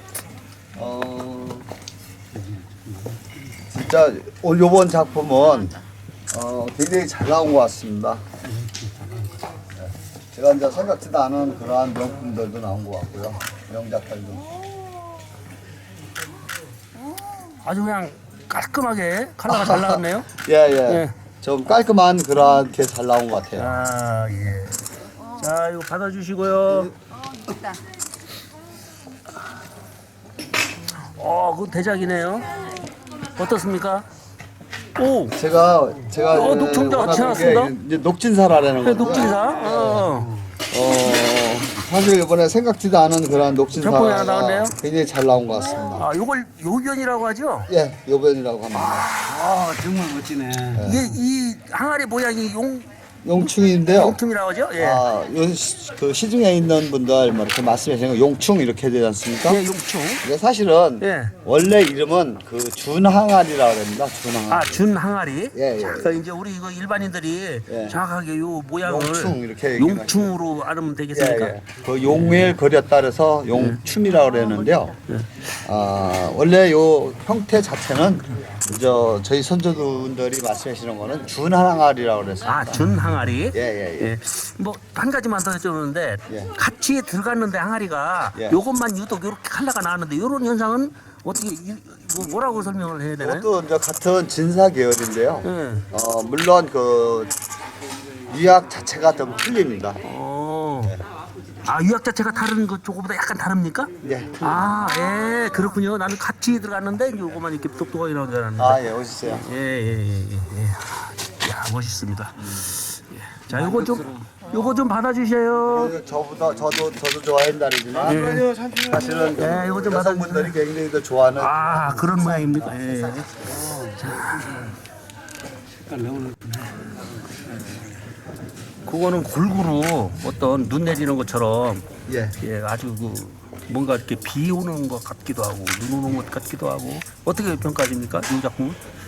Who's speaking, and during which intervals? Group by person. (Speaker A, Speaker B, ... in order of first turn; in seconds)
Speaker A: 0.7-1.7, 3.7-5.8, 6.3-8.2, 9.8-14.5, 19.5-23.8, 35.4-40.1, 40.7-46.1, 47.7-49.1, 50.7-51.1, 53.2-54.2, 54.8-59.6, 60.2-64.8, 65.5-66.2, 67.7-68.0, 68.8-70.3, 71.1-75.0, 75.6-83.0, 83.5-84.2, 88.3-88.6, 93.2-97.3, 98.3-100.0, 104.0-104.7, 108.6-109.4, 112.4-112.7, 115.7-118.2, 118.8-123.7, 132.1-132.3
Speaker B: 17.5-20.3, 20.9-21.1, 23.5-26.9, 31.1-32.5, 33.3-34.0, 35.0-35.4, 36.3-37.7, 38.8-40.3, 43.7-44.7, 45.9-47.7, 48.7-49.6, 50.7-55.0, 59.5-60.2, 61.0-61.3, 64.5-72.5, 73.5-73.8, 75.1-75.4, 82.5-93.5, 95.4-95.8, 100.0-101.0, 101.6-116.0, 118.0-118.5, 119.3-120.6, 121.4-124.7, 128.8-131.9, 132.4-138.8
Speaker C: 49.4-50.8, 118.2-119.2, 126.0-126.5